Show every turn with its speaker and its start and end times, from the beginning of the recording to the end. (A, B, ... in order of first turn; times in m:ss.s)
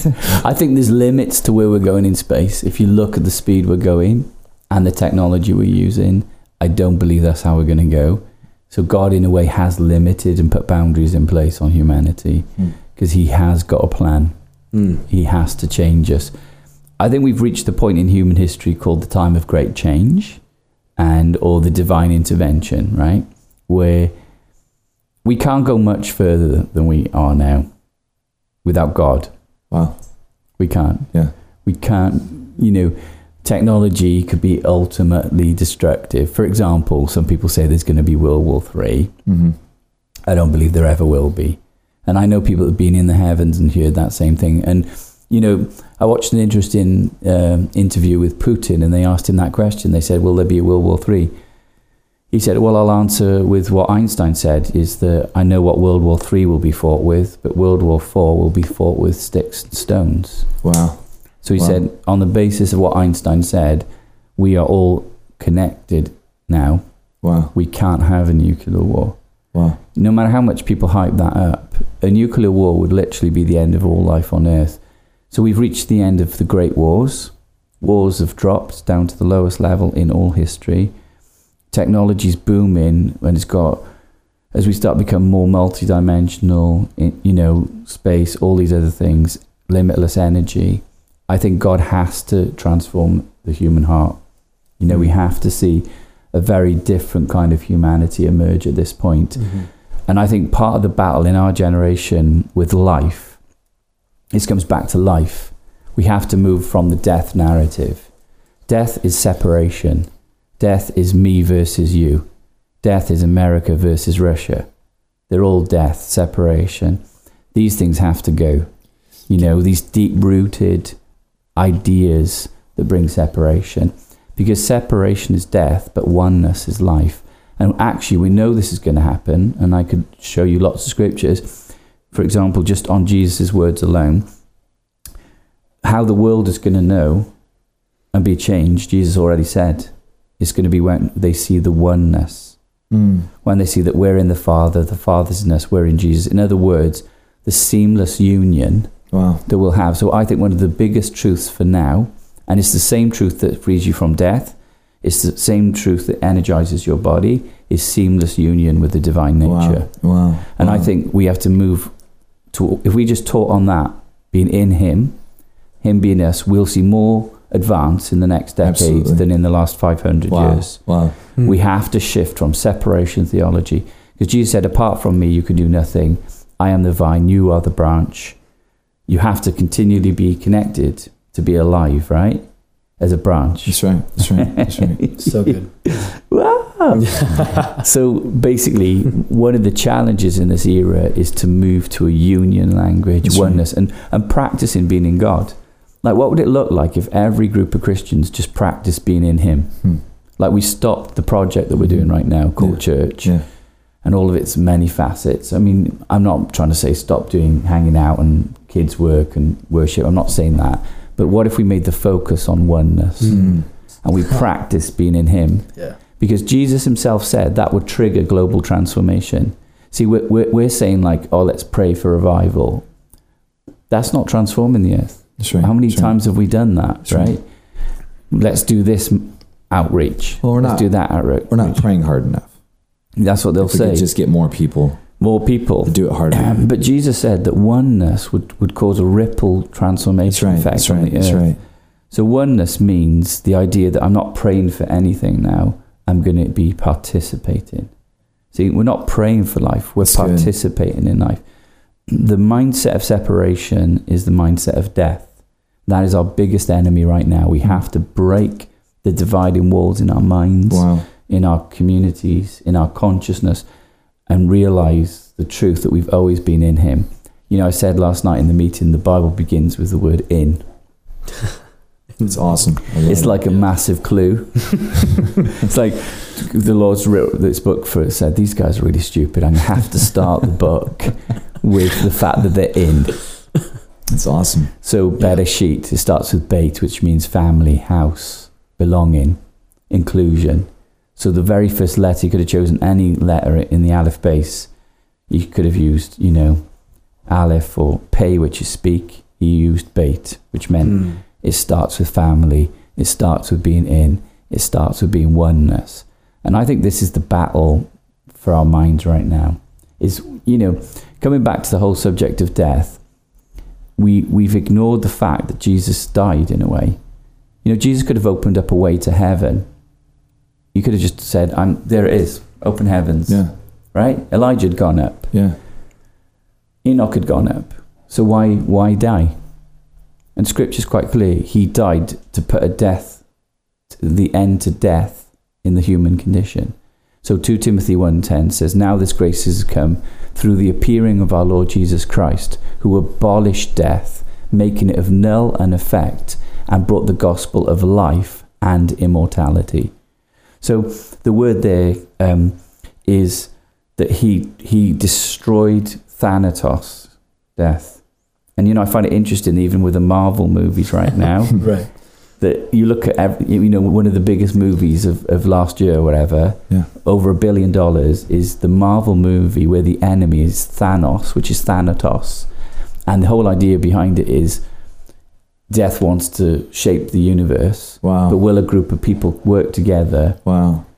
0:00.2-0:14.3 A
0:14.7-0:15.0 B
0:15.1-0:16.3 A
0:17.0-0:20.4 A
0:21.0-0:24.1 A
0:25.2-0:27.7 A
0:28.6-0:29.3 A
0:29.7-0:30.0 C
0:30.6-0:39.1 A
0:39.2-0:39.6 C
0:40.2-0:51.3 A
0:52.3-1:00.6 A
1:00.6-1:01.8 C
1:01.4-1:06.8 A
1:07.2-1:07.5 C
1:07.5-1:09.2 A
1:09.9-1:14.8 A
1:15.3-1:20.9 A
1:21.7-1:23.8 A
1:24.5-1:43.4 A
1:39.4-1:39.7 B
1:44.3-1:48.1 A
1:48.6-1:50.1 A
1:50.6-1:52.3 A
1:52.8-1:54.7 A
1:55.3-1:57.0 A
1:57.5-2:01.0 A
2:01.6-2:14.3 A
2:15.8-2:17.3 A
2:18.1-2:22.6 A
2:22.9-2:23.3 C
2:23.4-2:41.9 A
2:29.1-2:29.4 C
2:39.4-2:40.9 C
2:42.5-2:45.2 A
2:45.8-2:58.4 A
2:48.6-2:49.2 C
2:50.3-2:51.2 C
2:59.1-3:02.4 A
3:03.0-3:23.5 A
3:03.6-3:05.0 C
3:05.2-3:05.7 B
3:06.9-3:07.8 B
3:13.2-3:13.6 C
3:21.8-3:23.4 C
3:24.0-3:42.8 A
3:33.3-3:33.6 C
3:43.9-3:47.4 A
3:45.4-3:46.1 C
3:47.1-3:47.3 C
3:48.3-3:51.8 A
3:50.4-3:52.5 C
3:53.2-3:54.1 A
3:53.6-3:55.2 C
3:55.2-4:07.9 A
3:55.8-3:56.6 C
4:00.3-4:01.6 C
4:08.5-4:11.4 A
4:10.0-4:10.5 C
4:12.1-4:15.3 A
4:15.8-4:23.6 A
4:20.7-4:21.0 C
4:24.3-4:30.6 A
4:32.2-4:33.4 C
4:33.0-4:43.5 A
4:44.1-4:44.7 C
4:44.8-4:54.7 A
4:55.3-4:56.7 A
4:57.2-5:13.0 A
5:00.8-5:01.2 B
5:14.0-5:17.0 A
5:17.6-5:19.7 A
5:20.7-5:25.3 A
5:23.3-5:23.5 C
5:25.3-5:25.6 C
5:26.8-5:29.4 A
5:30.3-5:33.2 A
5:33.9-5:49.9 A
5:50.6-6:12.5 A
6:01.6-6:01.9 B
6:13.1-6:14.6 A
6:15.7-6:20.4 A
6:18.0-6:18.4 C
6:20.4-6:20.9 C